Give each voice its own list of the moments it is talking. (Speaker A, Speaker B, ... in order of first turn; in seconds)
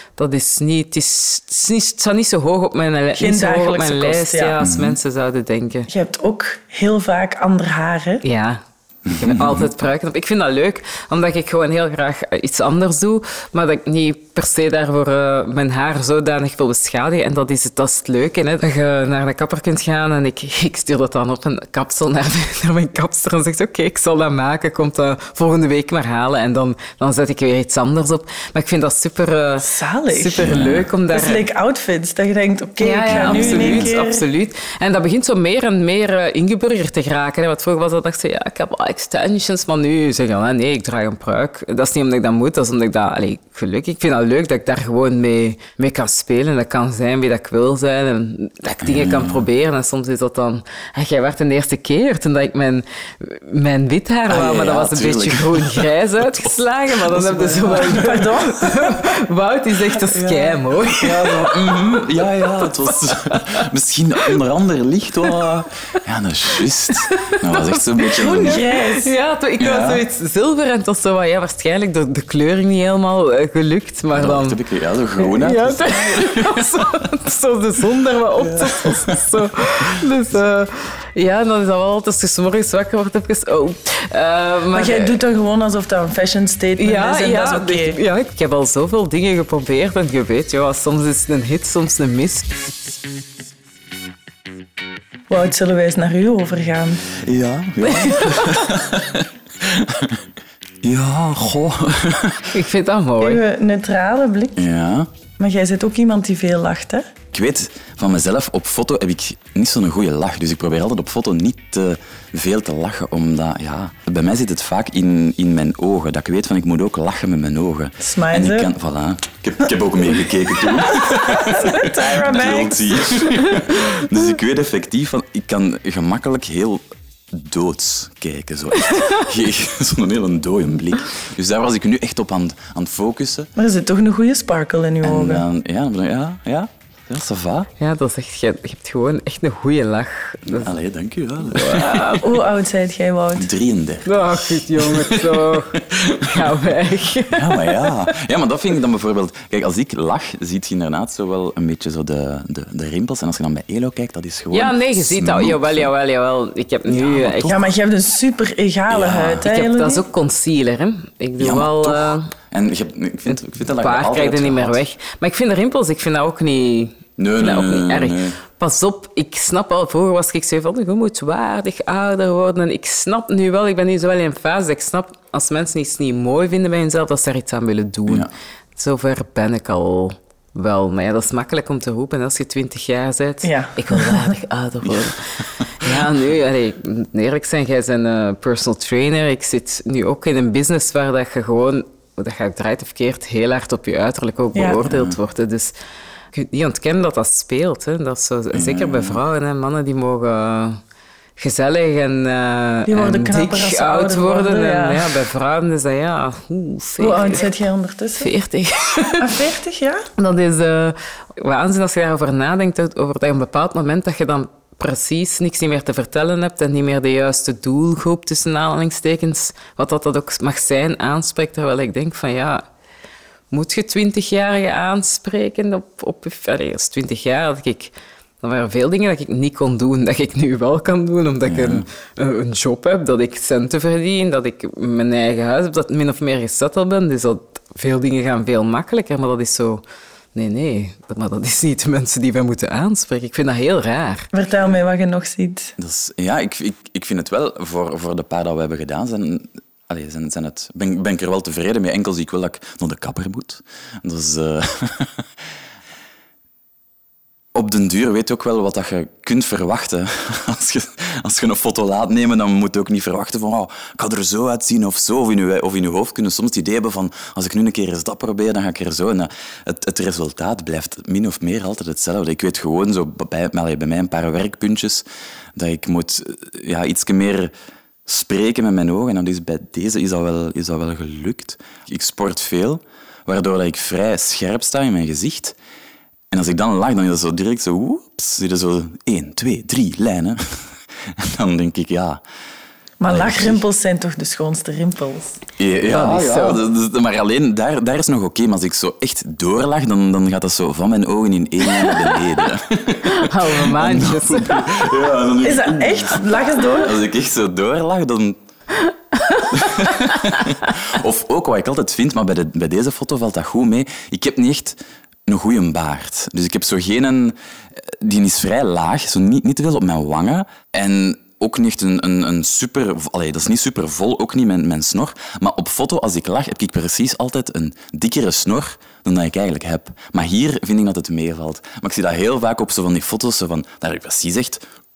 Speaker A: 0.2-5.9, 8.2-31.4, 32.8-63.6, 66.9-74.6, 75.2-85.2, 86.8-92.5, 97.9-98.6, 102.5-103.4, 137.8-140.7, 141.5-142.4, 144.1-148.0, 154.5-157.6, 159.4-162.3, 163.3-195.8, 196.3-200.8, 201.4-207.5, 208.2-209.4, 210.2-222.6, 223.5-239.8, 240.3-244.3, 295.9-296.6, 303.1-304.7, 308.9-310.0
Speaker B: 3.2-4.5, 5.9-8.2, 29.6-34.2, 57.7-59.1, 59.9-60.6, 68.2-69.1, 84.7-88.0, 95.3-97.0, 103.2-104.6, 105.4-107.1, 118.0-118.7, 120.9-123.4, 133.6-135.4, 141.6-143.5, 157.4-160.0, 183.4-184.3, 194.5-194.8, 202.9-205.2, 207.0-208.3, 209.1-210.1, 244.3-245.7, 293.0-295.4, 305.4-307.0
Speaker C: 4.6-5.0, 9.1-9.7, 30.4-30.9, 33.0-33.9, 48.8-49.5, 54.3-58.2, 60.9-68.7, 69.6-70.0, 74.1-77.0, 78.4-79.2, 97.1-100.2, 100.8-102.5, 104.5-105.1, 107.3-133.5, 135.0-137.7, 140.5-142.0, 143.3-146.6, 147.3-155.9, 156.9-157.6, 158.9-159.5, 161.4-164.8, 167.2-168.3, 184.8-186.0, 194.8-195.2, 198.5-199.2, 231.4-231.8, 245.8-255.3, 257.5-275.0, 275.6-277.5, 278.1-285.6, 286.3-292.2, 293.1-293.6, 295.6-308.4, 309.5-334.6